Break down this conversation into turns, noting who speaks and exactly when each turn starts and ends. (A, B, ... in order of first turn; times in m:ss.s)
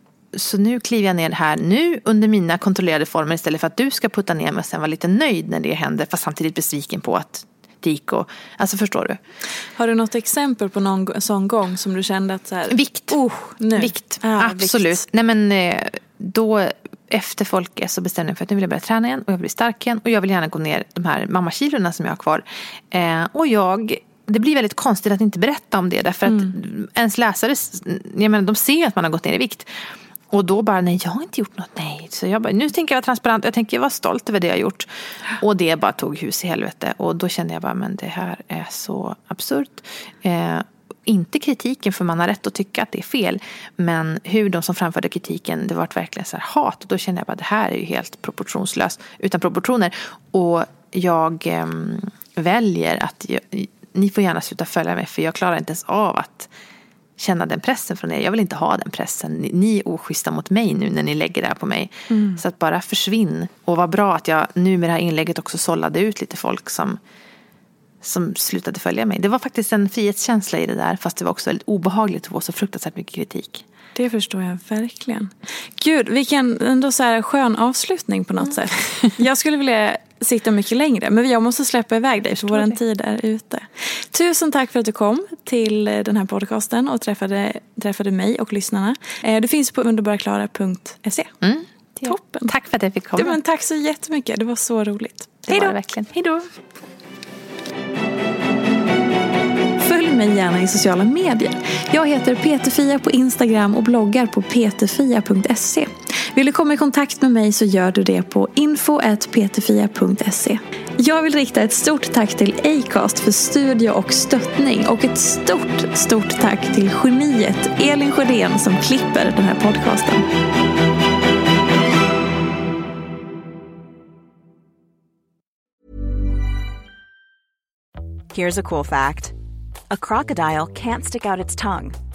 0:00.3-0:09.2 A
0:09.8-0:15.0 B
0:12.7-0:13.2 A
0:13.7-0:56.5 A
0:26.2-0:26.5 B
0:57.2-1:07.0 A
1:02.1-1:02.4 B
1:08.0-1:13.6 A
1:13.9-1:31.3 B
1:22.3-1:22.8 A
1:31.4-1:33.4 A
1:32.0-1:32.5 B
1:33.2-1:35.8 B
1:35.5-1:36.5 A
1:39.8-2:00.2 B
2:08.3-2:09.3 C
2:09.9-2:12.0 C